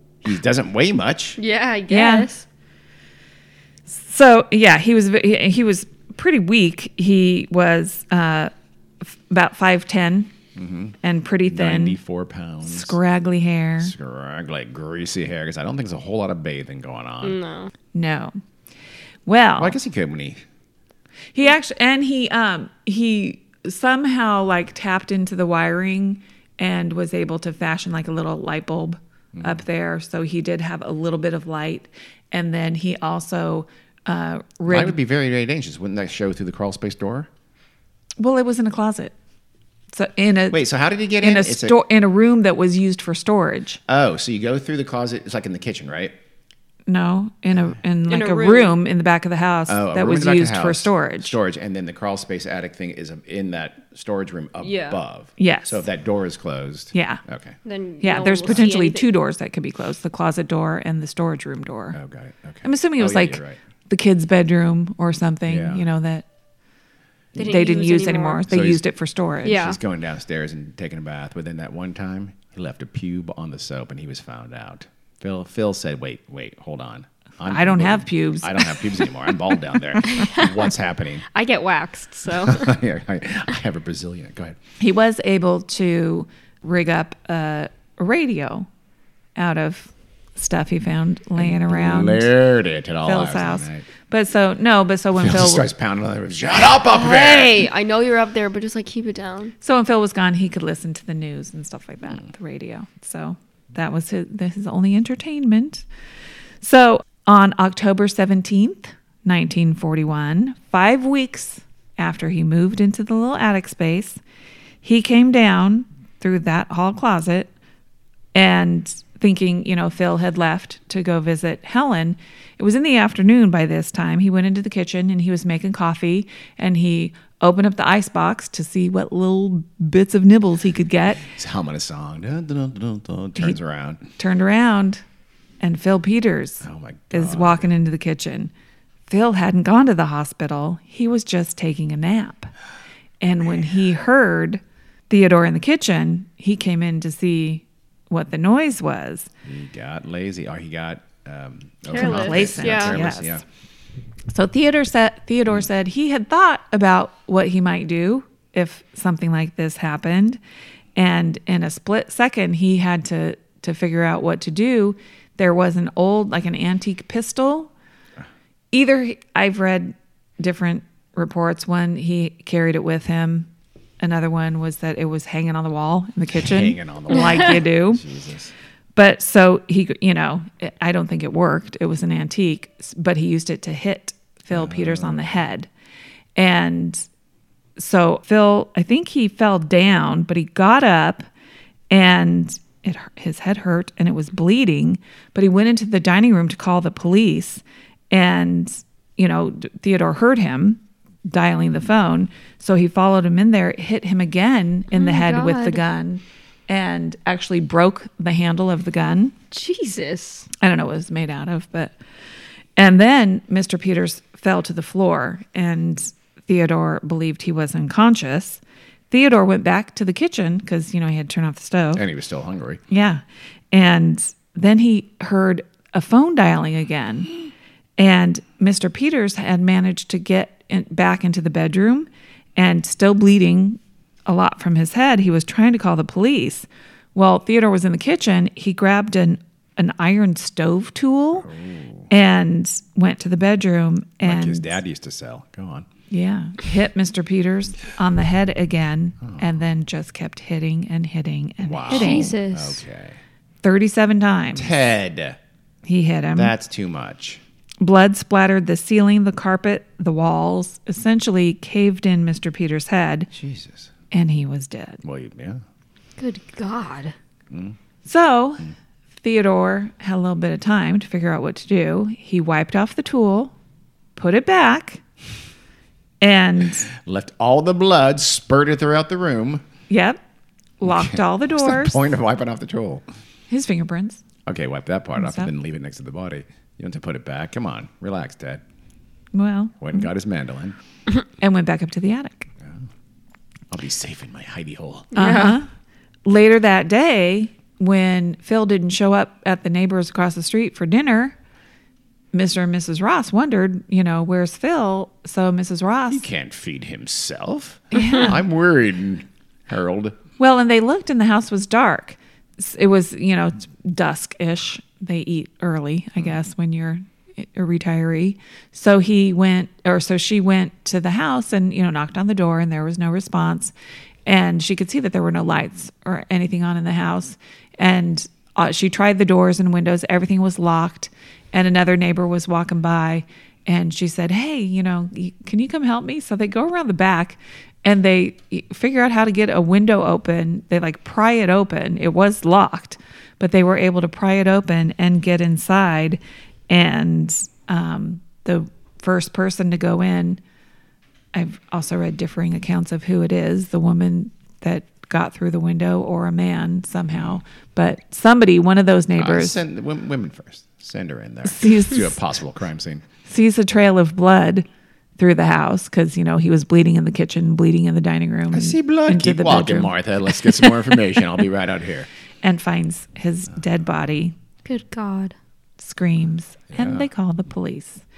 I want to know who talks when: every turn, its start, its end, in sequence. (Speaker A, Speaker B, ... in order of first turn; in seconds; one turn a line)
Speaker A: 0.2-1.4
Speaker B: 1.4-2.4
Speaker C: 1.9-2.3
Speaker C: 3.9-8.5
Speaker C: 9.0-10.3
Speaker A: 10.5-13.0
Speaker C: 11.0-12.0
Speaker C: 12.6-13.9
Speaker A: 13.8-17.4
Speaker B: 17.2-17.7
Speaker C: 17.9-18.4
Speaker C: 19.2-19.8
Speaker A: 19.6-20.4
Speaker C: 21.3-35.0
Speaker A: 29.3-29.6
Speaker A: 34.7-37.3
Speaker C: 38.2-39.1
Speaker C: 39.9-40.6
Speaker A: 40.5-41.8
Speaker C: 41.2-43.8
Speaker A: 43.9-46.1
Speaker C: 46.9-51.3
Speaker B: 48.1-48.8
Speaker A: 49.7-57.5
Speaker B: 54.6-55.0
Speaker C: 55.4-55.8
Speaker C: 56.9-57.2
Speaker B: 57.6-59.1
Speaker C: 58.0-62.0
Speaker A: 61.9-63.6
Speaker C: 62.6-66.2
Speaker A: 65.5-65.8
Speaker B: 67.3-68.4
Speaker C: 67.3-69.6
Speaker A: 68.5-68.8
Speaker B: 69.4-69.8
Speaker A: 69.5-81.2
Speaker C: 77.5-79.1
Speaker B: 80.1-80.5
Speaker B: 81.3-82.7
Speaker A: 82.4-84.6
Speaker C: 84.8-88.7
Speaker C: 89.3-92.3
Speaker A: 91.4-93.8
Speaker C: 93.0-95.7
Speaker A: 95.2-97.7
Speaker B: 96.8-99.5
Speaker C: 99.6-105.8
Speaker C: 106.6-114.2
Speaker C: 114.8-117.5
Speaker C: 118.3-131.2
Speaker A: 131.2-134.0
Speaker C: 134.2-135.0
Speaker C: 135.6-138.5
Speaker A: 136.6-137.7
Speaker C: 139.1-142.5
Speaker C: 143.2-149.3
Speaker A: 149.4-153.4
Speaker B: 151.9-153.0
Speaker C: 151.9-153.4
Speaker C: 154.3-160.4
Speaker C: 160.9-167.7
Speaker C: 168.7-173.5
Speaker C: 174.0-178.0
Speaker A: 176.3-178.5
Speaker C: 178.9-185.7
Speaker A: 184.5-185.4
Speaker C: 186.3-187.0
Speaker C: 187.8-191.3
Speaker C: 191.9-209.3
Speaker B: 204.9-205.8
Speaker B: 209.5-210.5
Speaker C: 210.6-211.9
Speaker C: 212.8-222.0
Speaker A: 221.9-222.8
Speaker C: 222.9-227.3
Speaker C: 228.0-241.5
Speaker A: 241.4-242.1
Speaker C: 242.1-244.8
Speaker A: 244.2-245.9
Speaker C: 246.1-252.4
Speaker A: 249.2-249.5
Speaker A: 251.6-253.2
Speaker B: 251.9-252.8
Speaker C: 253.6-254.8
Speaker A: 254.6-255.4
Speaker C: 255.8-256.5
Speaker A: 256.3-257.4
Speaker C: 257.8-263.3
Speaker A: 263.3-263.9
Speaker C: 264.1-265.0
Speaker A: 265.0-265.6
Speaker B: 266.2-267.1
Speaker A: 267.5-267.8
Speaker C: 268.0-268.7
Speaker C: 269.2-273.5
Speaker C: 274.1-275.0
Speaker C: 276.2-276.9
Speaker A: 276.9-279.6
Speaker C: 279.9-280.2
Speaker C: 280.8-282.0
Speaker A: 280.8-283.0
Speaker C: 283.5-284.2
Speaker A: 284.4-288.6
Speaker C: 285.2-285.5
Speaker C: 289.3-290.0
Speaker A: 289.8-290.8
Speaker C: 291.4-292.5
Speaker A: 293.7-295.1
Speaker B: 295.1-295.6
Speaker C: 295.1-295.7
Speaker C: 296.2-301.3
Speaker C: 302.3-306.2
Speaker A: 306.1-310.1
Speaker C: 307.9-308.4
Speaker C: 310.4-323.7
Speaker C: 324.2-350.4
Speaker C: 351.3-359.6
Speaker A: 359.1-363.0
Speaker C: 361.4-362.1
Speaker C: 363.2-364.6
Speaker C: 365.2-369.9
Speaker A: 368.5-372.1
Speaker C: 372.4-374.3
Speaker B: 374.6-375.3
Speaker C: 375.8-378.0
Speaker A: 376.7-377.1